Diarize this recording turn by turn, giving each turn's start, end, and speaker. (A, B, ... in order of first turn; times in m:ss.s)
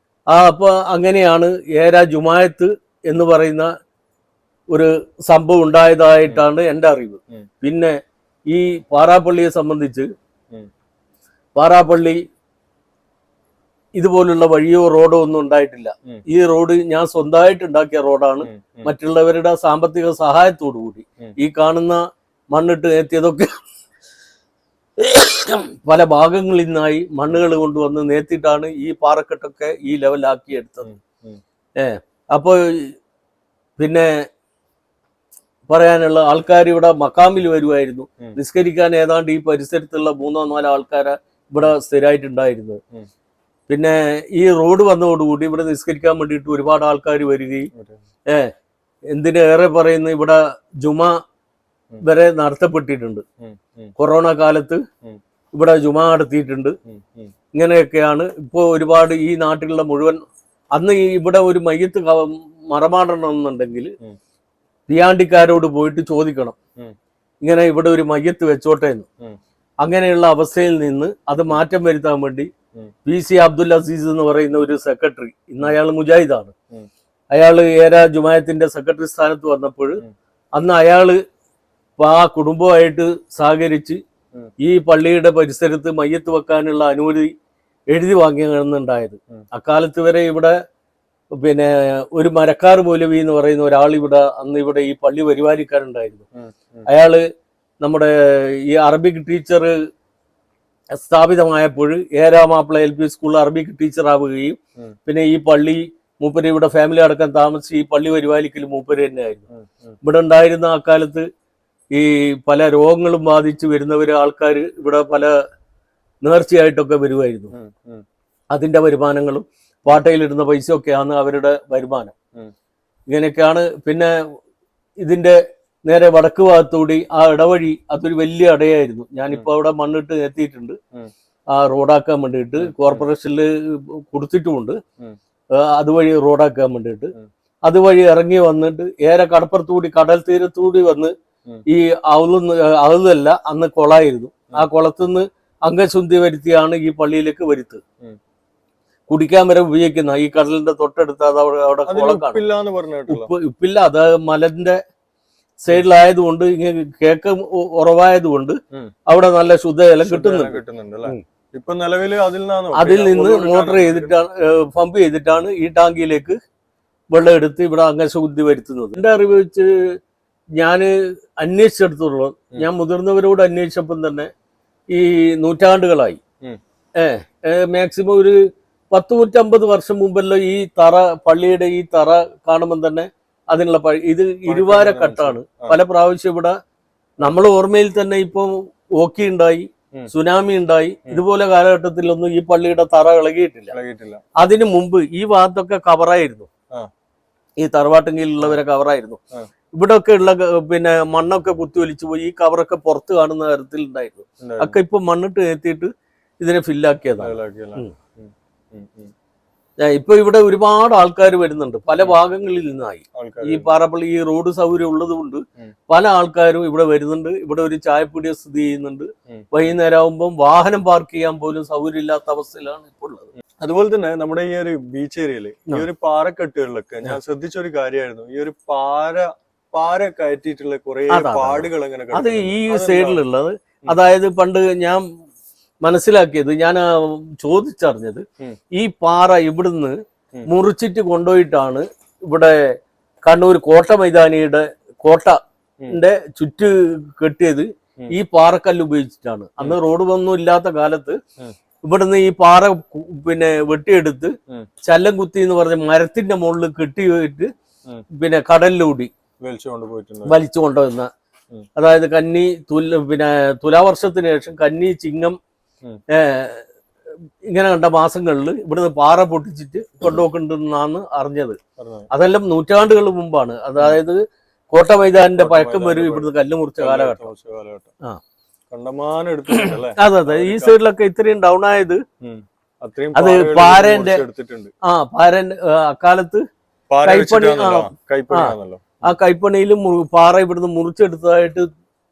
0:00.3-0:03.7 A
0:04.7-0:10.1 A
0:11.6-0:12.2 A
0:14.0-0:23.5 A
0:18.4-0:18.9 B
0:25.0-0:30.9 A
0:30.8-0:31.4 B
0:31.8-0:32.9 A
0:33.8-0:34.2 A
0:35.7-0:42.8 A
0:43.7-0:47.7 A
0:47.7-0:48.0 B
0:49.1-0:51.2 A
0:52.0-0:53.2 A
0:53.4-0:53.9 B
0:54.0-0:54.8 A
0:55.5-0:56.8 A
0:56.9-0:57.3 B
0:57.5-1:00.2 A
1:00.7-1:03.9 A
1:04.9-1:06.6 A
1:07.4-1:09.1 A
1:09.8-1:12.5 A
1:13.0-1:16.5 A
1:17.3-1:20.0 A
1:20.6-1:21.2 A
1:22.0-1:24.0 A
1:24.6-1:27.3 A
1:27.9-1:30.6 A
1:31.4-1:36.3 A
1:36.3-1:36.9 B
1:36.8-1:37.3 A
1:37.8-1:39.8 A
1:40.9-1:49.5 A
1:49.5-1:50.0 B
1:50.0-1:51.3 A
1:51.9-1:55.4 A
1:56.2-1:57.5 A
1:57.5-1:58.0 B
1:58.5-2:02.1 A
2:03.1-2:04.2 A
2:05.0-2:10.8 A
2:11.5-2:14.8 A
2:12.6-2:13.1 B
2:15.5-2:17.1 A
2:17.6-2:21.1 A
2:21.7-2:27.8 A
2:29.1-2:32.4 A
2:31.9-2:33.3 B
2:33.1-2:34.8 A
2:35.6-2:41.2 A
2:40.0-2:44.2 B
2:42.7-2:46.4 A
2:47.1-2:50.0 A
2:50.6-2:54.3 A
2:54.9-2:56.2 A
2:57.0-3:06.6 A
3:04.5-3:05.8 B
3:07.2-3:13.8 A
3:13.7-3:14.2 B
3:14.4-3:16.5 A
3:17.6-3:19.2 A
3:19.7-3:27.9 A
3:24.4-3:24.8 B
3:27.2-3:29.1 B
3:29.8-3:43.3 A
3:33.1-3:33.7 B
3:43.6-3:53.2 B
3:51.1-3:55.0 A
3:55.8-4:11.2 A
4:11.8-4:17.5 A
4:18.1-4:19.1 A
4:19.4-4:20.4 B
4:20.2-4:21.1 A
4:21.8-4:25.4 A
4:26.1-4:26.7 A
4:27.5-4:31.6 A
4:31.8-4:32.1 B
4:32.1-4:34.2 A
4:34.7-4:37.3 A
4:35.1-4:37.9 B
4:38.7-4:40.7 B
4:39.5-4:42.0 A
4:42.2-4:44.7 B
4:43.1-4:44.2 A
4:44.8-4:46.4 A
4:46.9-4:49.1 B
4:47.0-4:51.7 A